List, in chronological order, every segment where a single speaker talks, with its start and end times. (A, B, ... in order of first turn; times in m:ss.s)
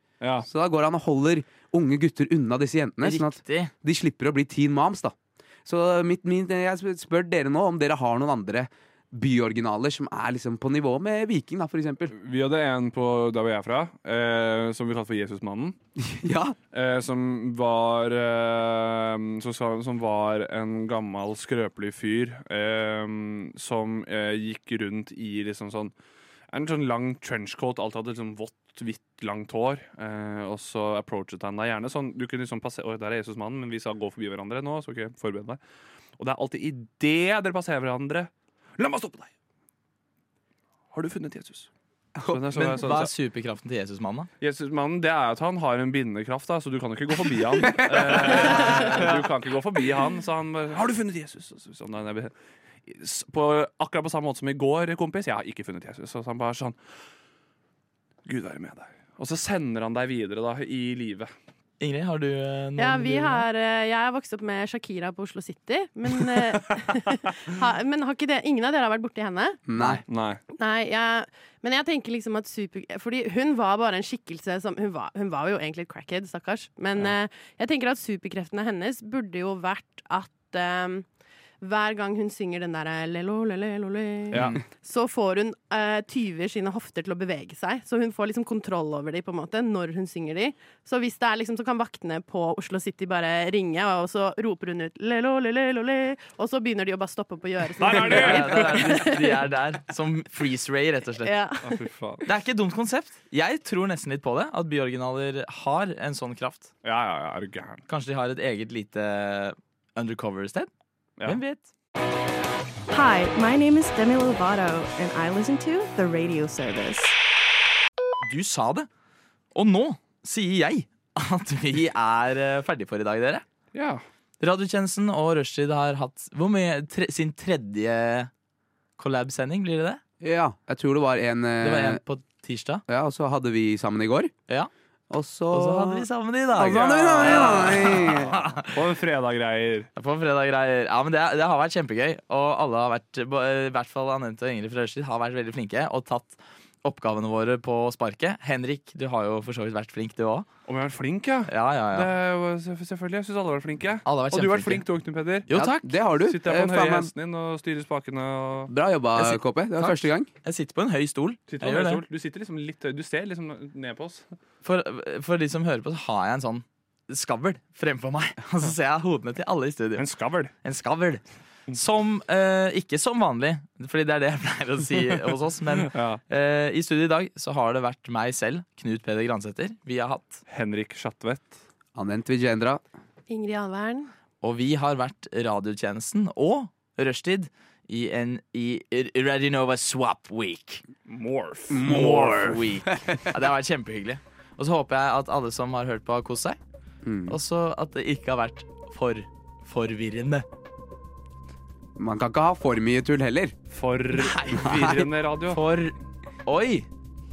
0:00.2-0:00.5 A
0:00.4-0:12.1 B
0:03.0-0:03.7 C
0:12.1-0:15.8 A
0:16.0-0:16.6 B
0:16.7-0:25.9 A
0:26.5-0:35.6 A
0:36.2-0:39.3 A
0:40.9-0:41.7 A
0:42.3-0:43.1 A
0:42.5-0:44.3 C
0:44.4-0:52.3 A
0:47.6-0:48.6 B
0:48.5-0:48.9 C
0:52.9-0:56.8 A
0:58.2-1:01.3 A
1:01.8-1:03.4 C
1:02.8-1:09.6 D
1:09.7-1:10.0 B
1:10.1-1:10.4 A
1:10.6-1:21.0 D
1:21.6-1:39.2 D
1:24.3-1:24.6 A
1:24.3-1:24.6 C
1:37.8-1:39.1 A
1:37.9-1:41.3 C
1:41.2-1:41.8 D
1:41.6-1:42.3 A
1:42.2-1:46.7 C
1:46.8-1:47.8 A
1:47.9-1:50.7 C
1:51.3-1:51.7 C
1:52.9-1:57.2 E
1:58.2-1:58.9 C
1:59.6-2:03.5 C
2:03.7-2:04.0 A
2:04.4-2:08.3 C
2:09.0-2:10.0 C
2:10.2-2:12.0 B
2:11.6-2:12.8 C
2:12.9-2:14.3 B
2:15.1-2:18.4 B
2:15.5-2:18.7 C
2:16.6-2:19.9 A
2:20.0-2:30.5 C
2:30.7-2:35.5 A
2:31.5-2:32.1 C
2:34.0-2:34.9 C
2:35.5-2:35.9 C
2:35.5-2:37.1 B
2:36.2-2:38.7 A
2:38.7-2:40.3 B
2:39.2-2:42.0 C
2:41.5-2:44.3 A
2:44.6-2:50.0 C
2:50.0-2:50.5 A
2:50.6-3:00.4 C
2:55.9-2:56.2 A
3:00.5-3:01.6 A
3:02.0-3:02.8 B
3:03.3-3:04.1 D
3:04.4-3:10.8 C
3:11.1-3:12.6 A
3:11.7-3:13.2 B
3:11.8-3:16.6 C
3:17.0-3:17.4 B
3:17.3-3:20.4 C
3:22.0-3:23.6 B
3:23.7-3:25.6 A
3:24.2-3:24.8 C
3:24.7-3:25.0 B
3:25.5-3:25.9 C
3:26.5-3:26.9 C